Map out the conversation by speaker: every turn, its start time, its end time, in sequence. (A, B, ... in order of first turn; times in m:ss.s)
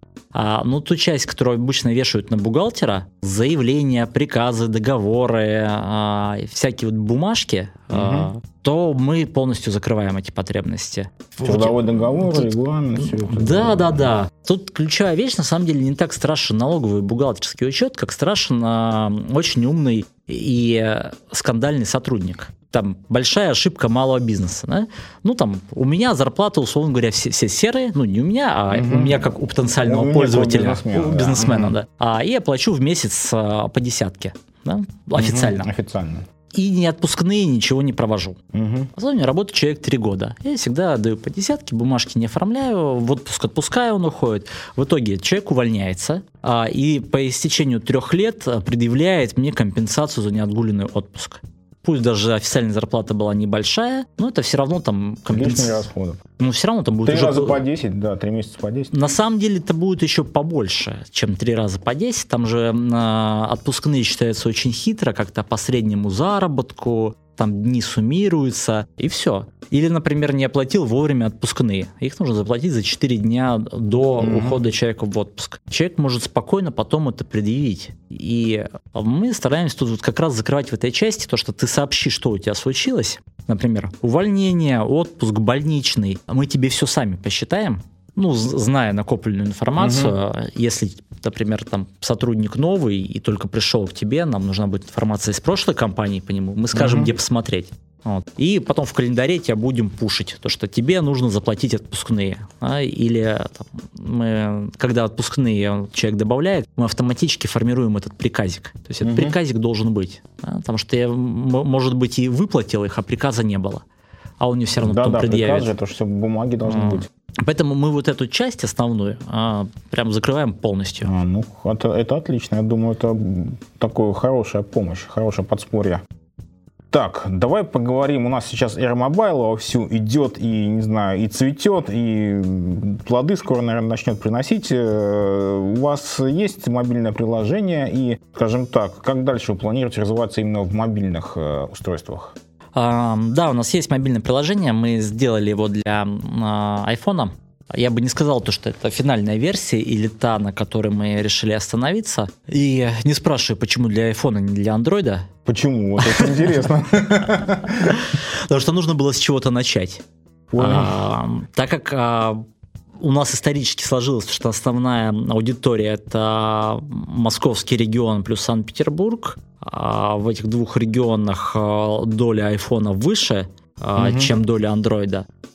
0:00.3-0:35.7 A
0:07.9-0:08.3 B
0:11.4-0:14.1 B
0:28.7-0:29.2 B
0:29.8-0:31.8 B
0:35.2-0:36.2 B
0:36.5-0:38.4 A
0:38.5-0:38.9 B
0:38.9-0:57.6 A
0:55.3-0:56.2 B
0:57.0-0:58.9 B
0:58.9-1:53.8 A
1:14.2-1:14.6 B
1:29.8-1:30.1 B
1:36.7-1:37.1 B
1:49.0-1:49.4 B
1:54.4-1:55.7 A
1:54.8-1:57.1 B
1:56.6-2:01.1 A
2:01.0-2:06.0 B
2:06.9-2:22.3 B
2:22.8-2:35.3 A
2:35.4-2:37.9 B
2:36.0-2:36.6 A
2:37.6-2:40.0 A
2:40.5-2:41.0 B
2:40.6-2:42.4 A
2:43.0-2:55.2 A
2:54.0-2:54.3 B